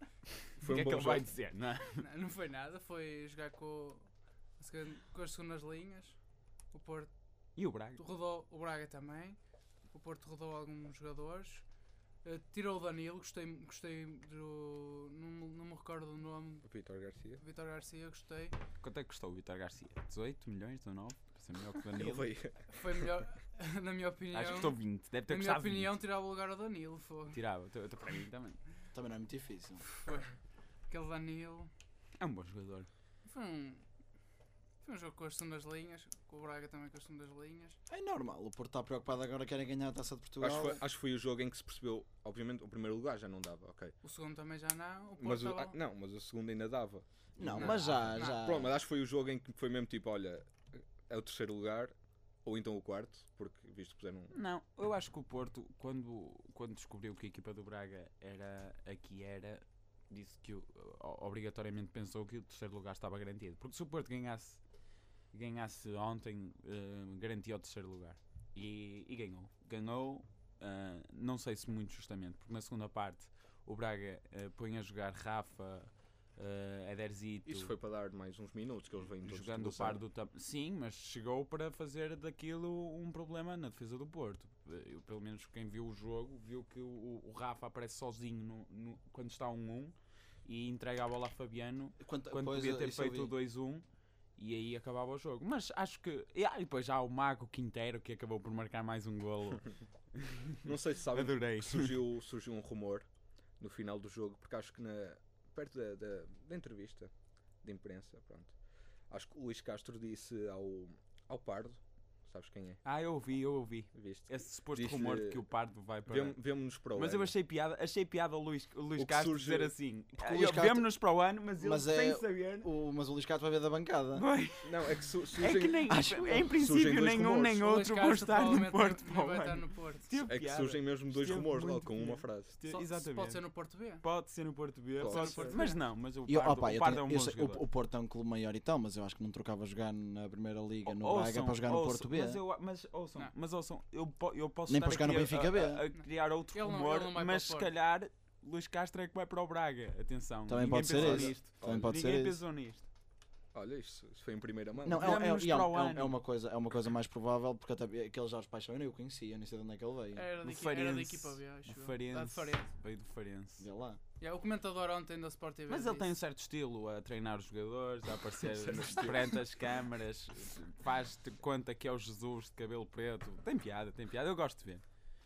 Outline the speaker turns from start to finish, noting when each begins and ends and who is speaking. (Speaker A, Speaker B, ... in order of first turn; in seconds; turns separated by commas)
Speaker A: 0.5-2.0, Speaker B: 0.6-1.2, Speaker C: 2.0-6.2, Speaker C: 6.7-7.1, Speaker A: 7.5-8.0, Speaker C: 8.0-9.4, Speaker C: 9.9-11.6, Speaker C: 12.2-16.7, Speaker B: 16.6-17.4, Speaker C: 17.4-18.6, Speaker A: 18.8-22.3, Speaker B: 21.9-23.2, Speaker C: 22.8-27.4, Speaker A: 24.3-25.9, Speaker A: 27.3-28.6, Speaker D: 28.9-29.9, Speaker C: 29.9-30.3, Speaker C: 30.9-31.7, Speaker A: 32.2-32.9, Speaker C: 33.2-33.8, Speaker C: 34.8-37.8, Speaker D: 37.9-40.8, Speaker B: 40.4-43.9, Speaker C: 44.0-45.7, Speaker B: 45.2-54.3, Speaker D: 47.4-48.7, Speaker A: 47.4-47.9, Speaker C: 47.6-48.4, Speaker A: 54.3-64.6, Speaker A: 65.3-77.7, Speaker B: 77.5-80.0, Speaker A: 79.2-93.8, Speaker D: 92.0-93.3, Speaker A: 94.4-102.0, Speaker B: 100.6-103.1, Speaker B: 103.6-107.1, Speaker B: 107.6-108.5, Speaker B: 109.1-112.8, Speaker A: 112.8-116.4, Speaker B: 113.9-115.4, Speaker B: 116.0-117.3, Speaker A: 116.9-122.7, Speaker B: 119.0-119.7, Speaker D: 120.2-120.9, Speaker D: 121.6-124.2, Speaker A: 124.2-133.4, Speaker B: 124.6-125.9, Speaker D: 125.9-126.5, Speaker B: 126.4-127.6, Speaker C: 127.6-130.1, Speaker B: 130.2-132.5, Speaker C: 132.7-134.0, Speaker A: 134.0-137.6, Speaker B: 135.0-135.6, Speaker C: 135.1-135.8, Speaker D: 136.2-142.4, Speaker A: 140.8-152.8, Speaker D: 144.7-145.8, Speaker C: 146.0-147.7, Speaker D: 150.5-152.4, Speaker B: 150.8-151.9, Speaker B: 153.5-155.2, Speaker D: 154.8-160.3, Speaker A: 154.9-156.2, Speaker C: 160.1-162.7, Speaker A: 160.4-163.7, Speaker D: 163.6-164.0, Speaker C: 164.2-166.1, Speaker A: 165.7-174.8, Speaker B: 168.5-169.4